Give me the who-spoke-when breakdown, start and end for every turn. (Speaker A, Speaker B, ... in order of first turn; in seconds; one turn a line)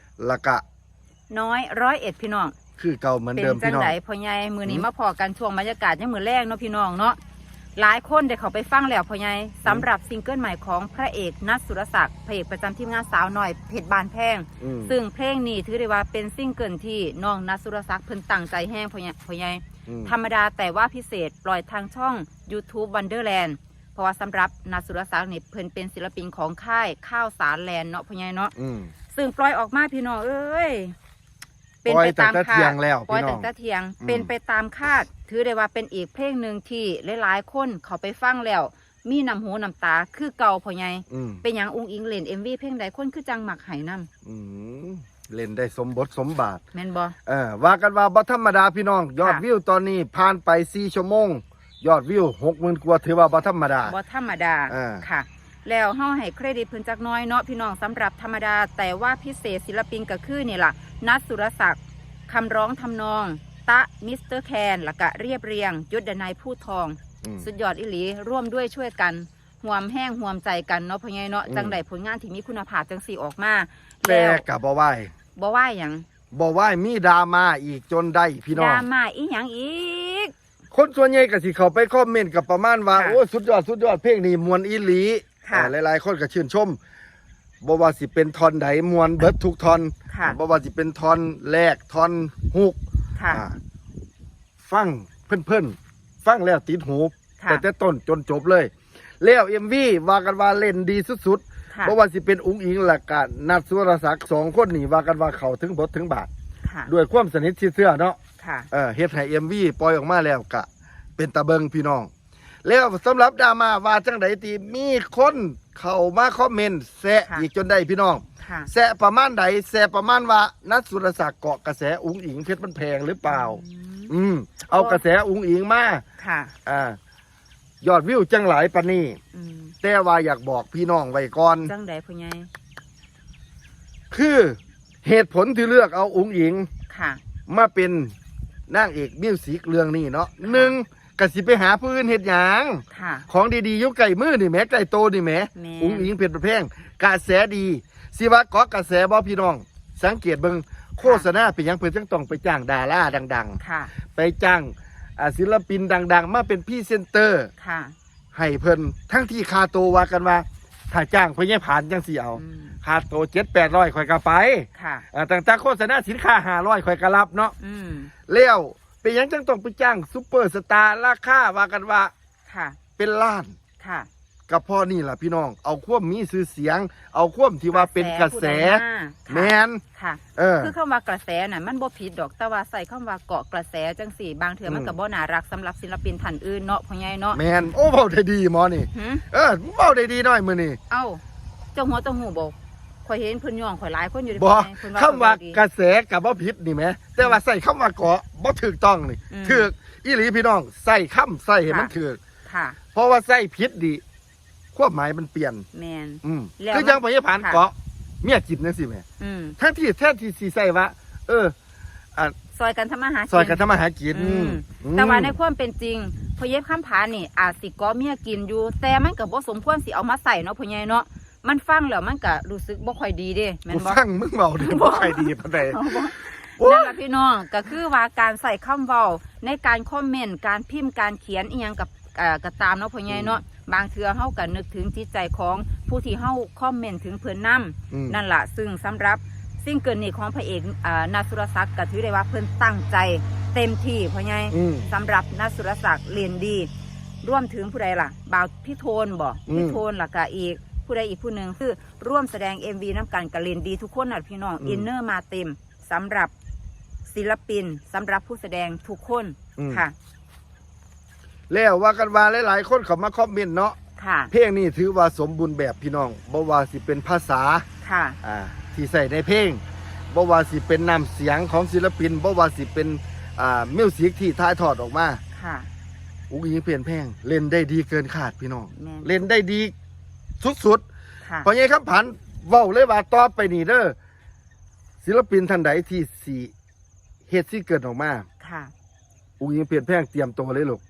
Speaker A: 0.2-0.6
Speaker B: 1.3-2.5
Speaker A: 2.8-3.9
Speaker B: 3.4-7.2
Speaker B: 7.8-28.5
Speaker A: 14.6-14.9
Speaker A: 19.9-20.1
Speaker A: 28.6-28.9
Speaker B: 29.1-30.9
Speaker B: 31.8-44.1
Speaker A: 31.9-33.5
Speaker A: 34.0-34.3
Speaker A: 41.1-41.4
Speaker A: 44.2-46.6
Speaker B: 46.7-47.1
Speaker A: 47.2-53.9
Speaker B: 53.8-74.4
Speaker A: 54.7-55.0
Speaker A: 67.2-67.5
Speaker A: 71.5-71.8
Speaker A: 74.0-75.1
Speaker B: 75.3-76.0
Speaker A: 76.3-78.8
Speaker B: 78.5-80.3
Speaker A: 80.7-86.8
Speaker B: 82.9-83.2
Speaker B: 85.4-85.7
Speaker A: 87.6-92.8
Speaker B: 90.1-90.4
Speaker B: 93.2-93.4
Speaker A: 93.3-93.6
Speaker A: 94.6-106.3
Speaker B: 97.4-97.6
Speaker B: 106.6-106.9
Speaker A: 106.9-108.2
Speaker B: 108.4-108.7
Speaker A: 108.7-112.1
Speaker A: 112.6-126.0
Speaker B: 118.4-118.7
Speaker B: 123.2-124.1
Speaker B: 124.7-125.0
Speaker B: 126.2-126.5
Speaker A: 126.6-127.0
Speaker A: 127.8-129.2
Speaker B: 129.3-129.7
Speaker A: 129.8-131.7
Speaker B: 131.6-132.5
Speaker A: 134.1-136.7
Speaker B: 136.9-137.2
Speaker A: 137.5-138.1
Speaker A: 138.7-153.6
Speaker B: 140.4-140.7
Speaker B: 142.9-143.3
Speaker B: 145.5-146.1
Speaker B: 151.0-151.3
Speaker B: 153.6-153.9
Speaker A: 154.1-157.5
Speaker B: 157.6-157.9
Speaker A: 158.3-167.5
Speaker B: 162.3-162.8
Speaker B: 164.7-165.1
Speaker B: 167.6-168.1
Speaker A: 168.3-172.1
Speaker B: 172.5-172.8
Speaker A: 173.0-173.5
Speaker B: 173.8-174.1
Speaker A: 174.5-179.8
Speaker B: 177.7-187.4
Speaker A: 180.3-180.7
Speaker A: 184.7-184.9
Speaker A: 187.3-190.8
Speaker B: 188.9-189.2
Speaker B: 190.9-191.2
Speaker B: 191.7-195.6
Speaker A: 194.3-202.2
Speaker B: 199.3-199.7
Speaker B: 201.7-201.9
Speaker B: 202.4-202.8
Speaker A: 202.9-204.0
Speaker A: 204.7-205.7
Speaker B: 205.7-207.6
Speaker A: 206.2-209.0
Speaker B: 209.2-209.6
Speaker A: 209.6-211.5
Speaker B: 212.5-224.0
Speaker A: 213.3-215.3
Speaker A: 223.7-227.0
Speaker B: 224.6-246.7
Speaker A: 233.1-233.4
Speaker A: 237.9-238.2
Speaker A: 244.5-244.9
Speaker B: 247.2-256.3
Speaker A: 249.5-249.8
Speaker A: 254.6-254.9
Speaker B: 257.1-259.9
Speaker A: 259.6-259.8
Speaker A: 261.5-263.8
Speaker B: 264.0-264.3
Speaker A: 264.3-267.6
Speaker B: 267.8-268.2
Speaker A: 268.2-275.2
Speaker B: 275.3-275.7
Speaker A: 276.3-279.7
Speaker B: 278.7-279.1
Speaker A: 280.4-280.8
Speaker A: 281.4-283.9
Speaker A: 285.0-286.5
Speaker A: 287.3-288.2
Speaker B: 288.4-288.7
Speaker A: 289.4-290.8